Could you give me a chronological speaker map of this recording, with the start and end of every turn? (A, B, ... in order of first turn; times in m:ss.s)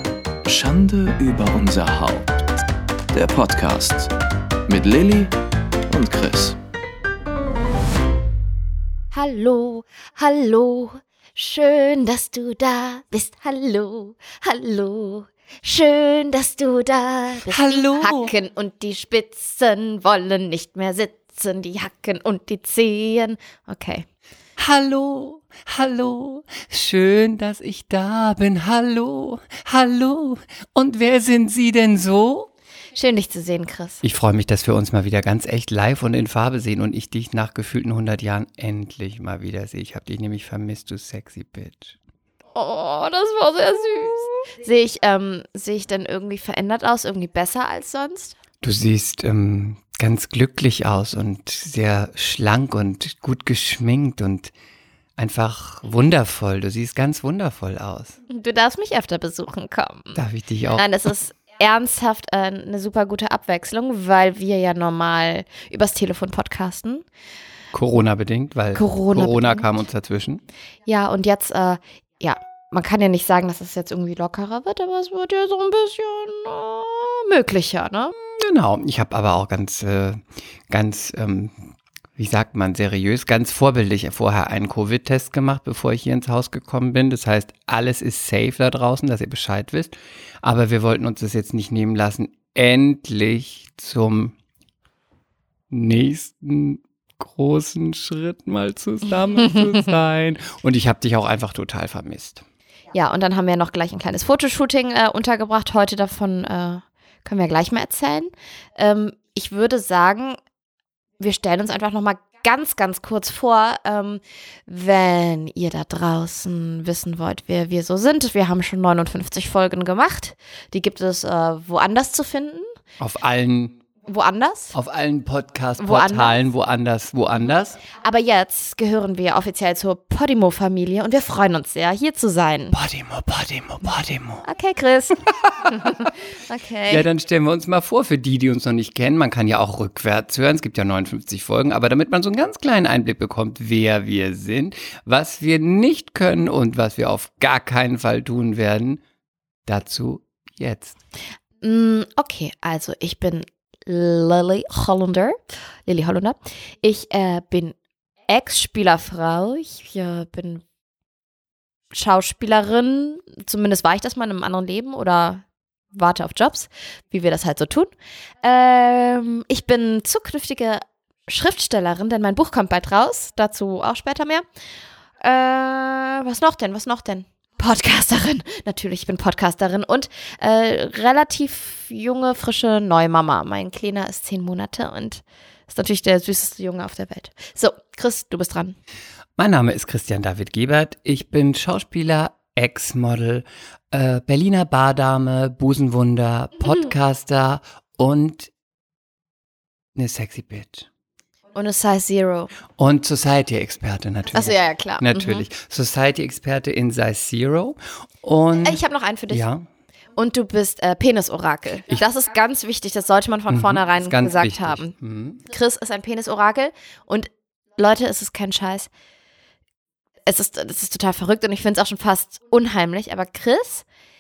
0:00.4-0:02.4 A
0:03.1-0:04.1 A
0:04.7-0:05.4 A
0:05.9-0:06.6 A
0:09.1-0:24.1 B
0:17.5-0:18.3 C
0:24.6-0:32.5 C
0:33.0-0:34.0 B
0:34.0-0:42.0 C
0:42.6-0:48.4 B
0:48.6-0:54.5 C
0:55.2-0:58.2 C
0:58.3-1:00.2 B
1:00.2-1:00.9 C
1:00.8-1:07.0 B
1:07.7-1:10.4 C
1:08.8-1:09.7 B
1:10.9-1:18.2 B
1:18.3-1:21.6 C
1:22.2-1:34.4 C
1:35.7-1:42.4 C
1:42.9-1:50.4 B
1:51.2-2:02.7 B
2:03.0-2:03.8 C
2:04.1-2:04.8 B
2:04.7-2:07.8 C
2:05.8-2:06.4 B
2:07.9-2:12.8 B
2:12.7-2:14.5 C
2:14.4-2:17.1 B
2:15.4-2:16.1 C
2:16.9-2:29.0 C
2:29.7-2:31.0 C
2:31.6-2:37.8 B
2:38.3-2:40.6 B
2:41.9-2:47.9 B
2:48.4-2:54.4 B
2:55.2-3:08.8 B
3:09.4-3:18.5 C
3:20.0-3:20.9 C
3:21.6-3:22.5 B
3:22.8-3:29.6 C
3:24.3-3:25.4 B
3:28.6-3:29.4 B
3:30.2-3:38.9 B
3:33.5-3:35.4 C
3:40.3-3:43.9 B